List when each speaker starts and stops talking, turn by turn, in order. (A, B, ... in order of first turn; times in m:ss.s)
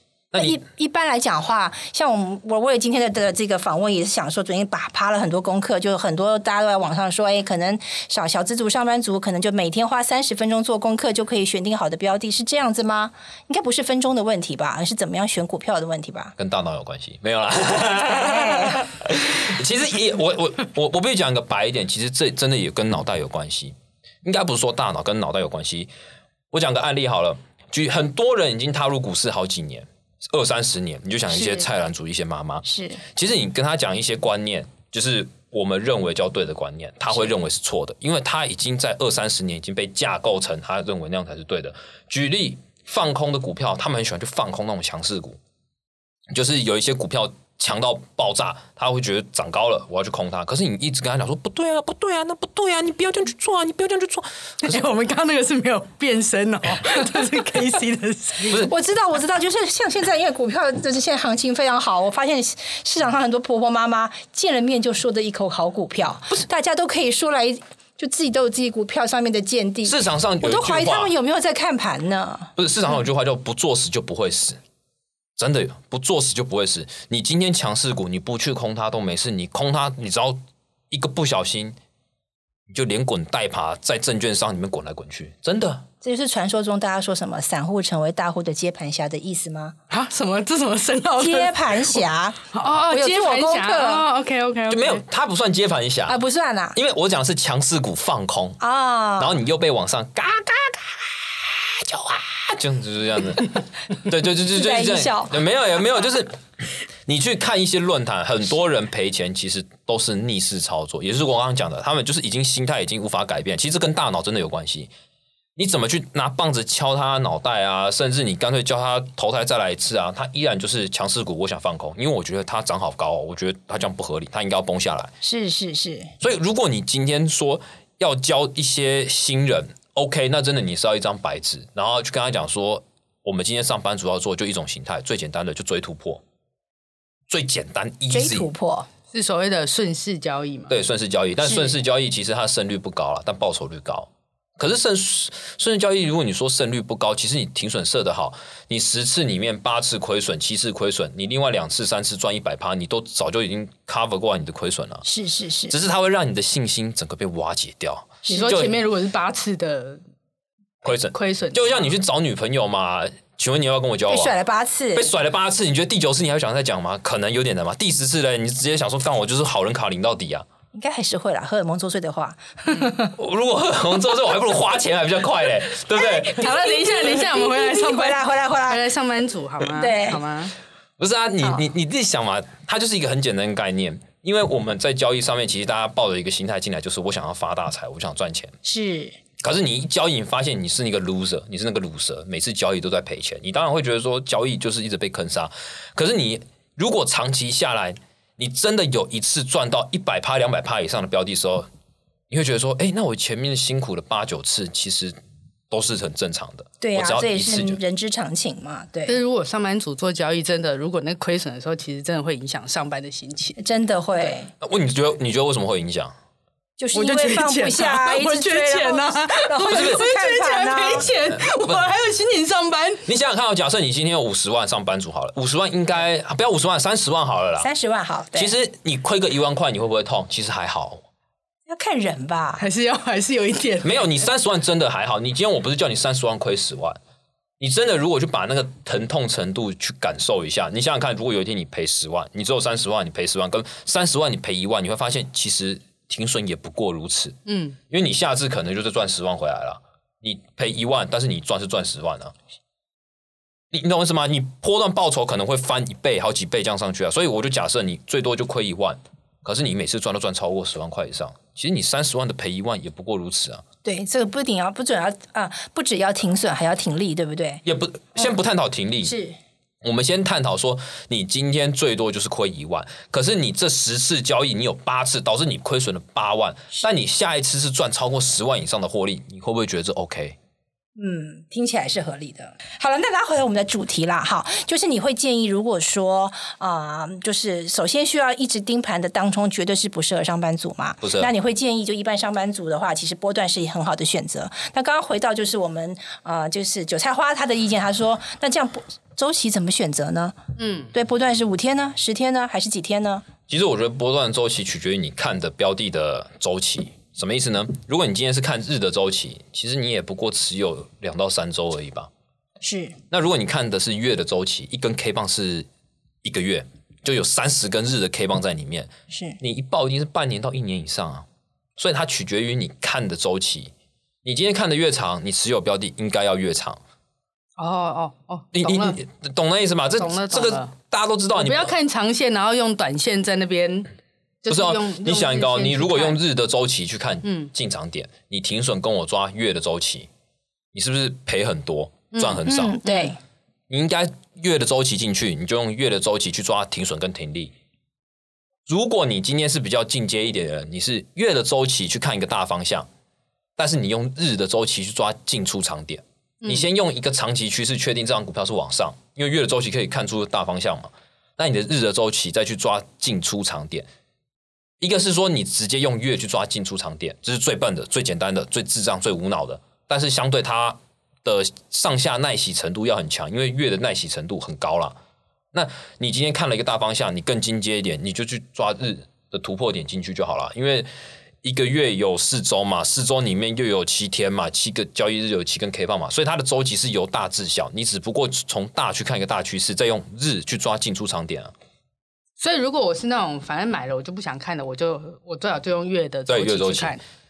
0:00.3-0:00.6 A
0:00.4-0:16.3 B
0:16.4-0:25.9 A
0:18.0-0:18.8 B
0:26.5-0:45.4 A
0:31.4-0:31.6 B
0:32.6-0:33.0 B
0:46.3-0:54.8 A
0:54.6-0:58.6 C
0:58.6-1:12.5 B
1:09.8-1:11.1 A
1:12.6-1:14.6 A
1:15.4-1:20.4 A
1:20.9-1:21.8 A
1:22.7-1:25.8 A
1:26.0-1:29.8 B
1:29.9-1:32.0 C
1:31.2-1:34.0 B
1:32.5-1:35.0 C
1:34.7-1:36.2 A
1:36.1-1:36.8 B
1:36.7-1:38.6 A
1:38.6-1:39.3 B
1:39.2-1:54.9 A
1:44.5-1:45.4 B
1:55.6-2:05.1 A
2:05.2-2:06.1 B
2:06.2-2:16.2 A
2:17.3-2:18.5 A
2:18.1-2:18.9 B
2:19.1-2:20.7 C
2:20.7-2:35.0 A
2:35.0-2:35.7 B
2:35.7-2:38.7 A
2:38.2-2:38.7 B
2:38.3-2:40.0 C
2:40.8-2:44.3 A
2:41.1-2:41.9 C
2:44.1-2:45.1 B
2:44.9-2:50.4 A
2:50.7-2:53.1 B
2:53.2-2:56.5 A
2:56.0-2:58.8 B
2:56.2-3:00.5 C
2:59.7-3:00.2 B
3:01.0-3:08.5 A
3:08.6-3:09.2 B
3:09.4-3:21.7 A
3:22.3-3:25.2 A
3:25.7-3:27.8 A
3:26.8-3:29.2 B
3:29.1-3:33.6 C
3:33.6-3:34.5 B
3:34.6-3:36.1 A
3:36.8-3:41.1 B
3:36.9-3:43.0 C
3:39.7-3:40.0 A
3:41.6-3:41.9 A
3:43.0-3:47.7 A
3:47.6-3:48.5 B
3:48.3-3:51.0 A
3:51.7-3:52.6 B
3:52.6-3:54.0 C
3:53.8-3:57.0 A
3:57.6-4:07.4 A
4:07.5-4:07.8 C
4:07.9-4:12.3 A
4:13.7-4:23.6 A
4:23.8-4:27.6 B
4:27.6-4:29.1 A
4:29.0-4:29.4 B
4:29.8-4:40.4 A
4:41.0-5:00.3 B
4:51.0-4:51.3 A
5:00.6-5:00.9 C
5:00.9-5:03.2 B
5:03.5-5:12.1 A
5:12.6-5:13.0 B
5:13.1-5:15.7 A
5:16.2-5:21.2 A
5:19.1-5:19.4 B
5:21.8-5:23.7 A
5:24.2-5:26.8 A
5:27.6-5:29.0 C
5:28.5-5:31.7 A
5:30.0-5:30.7 C
5:31.3-5:33.9 C
5:34.4-5:36.2 C
5:34.5-5:40.1 A
5:37.2-5:37.5 C
5:40.7-5:42.8 A
5:42.1-5:43.1 C
5:42.4-5:43.2 B
5:43.7-5:47.5 A
5:48.7-5:52.9 A
5:53.6-6:03.9 A
6:04.8-6:15.0 A
6:15.5-6:20.9 A
6:21.4-6:31.5 A
6:32.4-6:37.0 C
6:36.3-6:37.0 A